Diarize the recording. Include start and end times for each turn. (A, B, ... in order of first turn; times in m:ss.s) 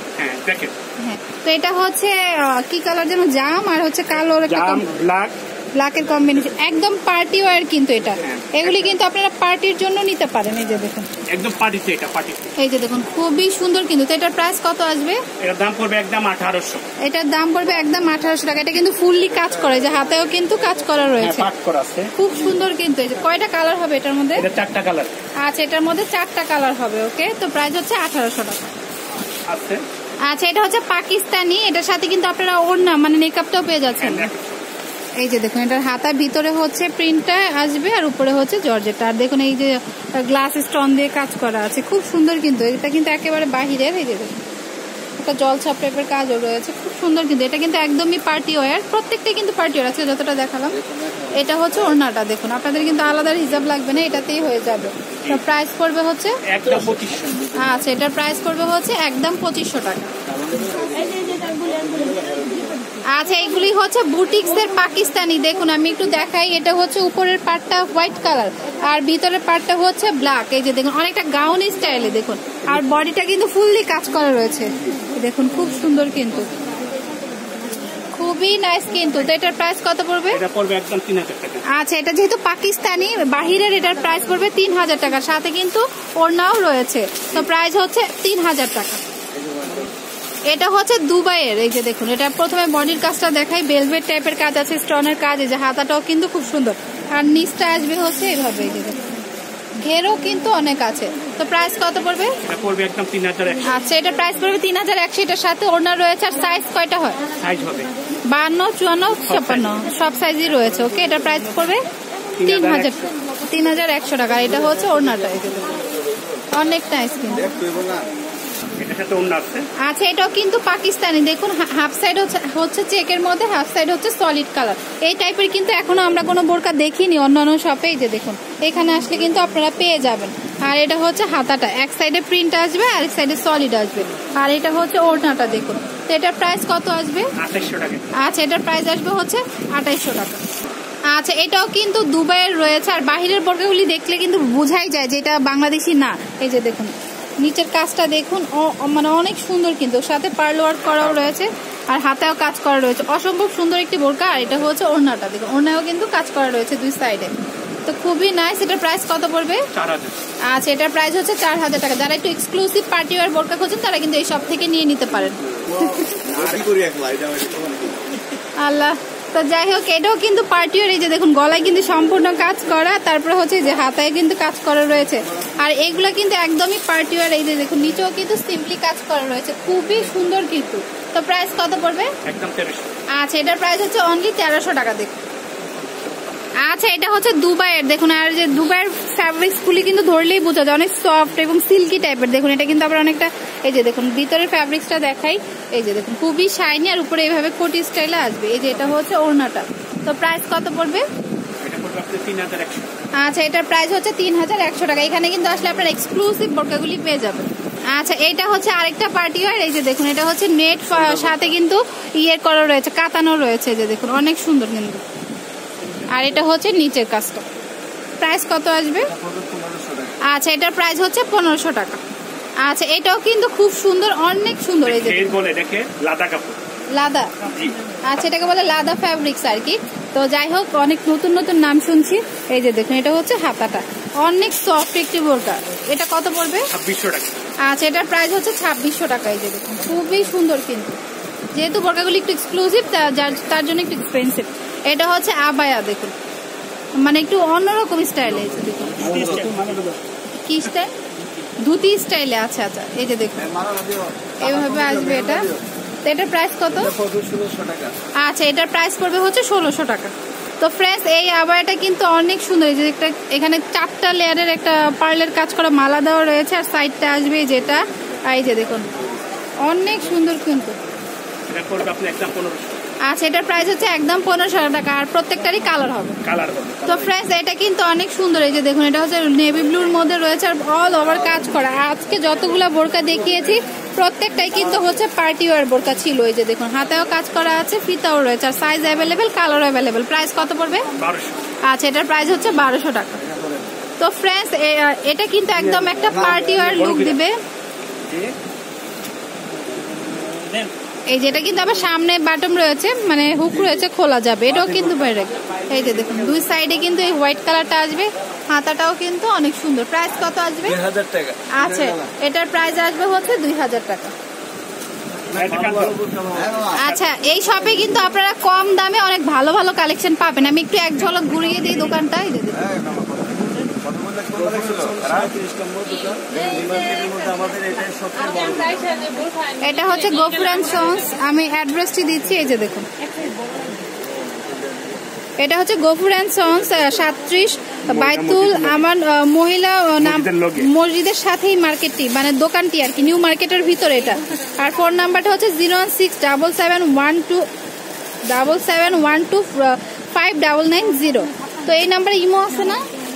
0:00.2-0:00.7 A
0:01.0-0:04.9 B
0:04.3-0:05.4 A
0:05.8-0:11.1 B
0:08.2-0:08.9 A
0:11.3-0:12.5 A
0:12.6-0:15.2 B
0:15.4-0:16.8 A
0:17.0-0:21.5 B
0:21.2-0:22.1 A
0:22.2-0:24.5 B
0:24.4-0:25.1 A
0:25.4-0:28.7 B
0:29.5-0:29.8 A
0:30.2-0:34.3 B
0:34.0-0:34.6 A
0:35.2-0:44.4 B
0:45.2-0:50.8 B
0:50.8-0:51.4 C
0:51.3-0:56.4 B
0:56.5-0:57.4 A
0:57.6-1:00.1 B
1:00.3-1:02.8 C
1:03.1-1:16.5 B
1:18.1-1:20.4 B
1:20.3-1:21.6 A
1:21.7-1:29.0 B
1:29.4-1:29.9 C
1:30.5-1:39.1 B
1:39.8-1:42.4 B
1:42.4-1:43.7 A
1:43.6-1:47.2 B
1:47.4-1:47.9 A
1:48.3-1:51.9 B
1:49.3-1:49.8 A
1:52.4-1:53.0 A
1:52.4-1:55.8 B
1:56.5-1:57.6 B
1:57.4-1:58.1 C
1:58.8-1:59.7 A
1:59.8-2:17.3 B
2:17.4-2:18.2 A
2:18.2-2:20.4 B
2:21.1-2:37.3 B
2:37.9-2:39.7 B
2:39.7-2:40.2 A
2:40.5-2:45.9 B
2:45.7-2:48.0 C
2:46.3-2:46.6 A
2:48.6-3:02.1 B
3:02.2-3:02.9 A
3:03.1-3:05.2 B
3:06.6-3:21.0 B
3:21.6-3:22.9 A
3:23.2-3:35.0 B
3:30.9-3:31.4 C
3:36.1-3:37.4 B
3:38.2-3:39.1 B
3:39.1-3:40.2 C
3:40.2-3:42.0 B
3:42.6-3:45.4 B
3:44.8-3:46.6 A
3:46.9-3:47.3 B
3:47.4-3:47.8 A
3:48.0-3:56.7 B
3:56.7-3:57.5 A
3:57.6-4:01.0 B
4:01.5-4:06.2 B
4:07.0-4:09.4 B
4:08.7-4:09.5 C
4:09.0-4:10.0 A
4:10.4-4:11.0 B
4:11.6-4:13.4 B
4:13.4-4:15.6 C
4:14.4-4:15.5 B
4:16.0-4:16.9 B
4:16.7-4:18.0 C
4:18.2-4:28.9 B
4:29.6-4:30.8 B
4:31.5-4:32.8 A
4:33.0-4:36.2 B
4:36.2-4:36.9 A
4:36.8-4:50.9 B
4:51.0-4:51.4 A
4:51.7-4:53.2 B
4:53.3-4:53.6 C
4:54.0-4:57.4 B
4:55.7-4:56.8 C
4:56.6-4:57.2 A
4:58.0-4:58.3 A
5:00.4-5:00.7 A
5:01.1-5:10.8 B
5:04.5-5:04.8 A
5:10.7-5:12.1 C
5:11.5-5:14.1 B
5:15.3-5:16.0 A
5:15.4-5:16.9 C
5:16.7-5:22.6 B
5:22.6-5:29.0 C
5:24.8-5:25.3 A
5:29.6-5:32.9 B
5:35.4-5:47.5 B
5:37.9-5:38.8 A
5:40.0-5:40.7 A
5:48.3-5:52.8 B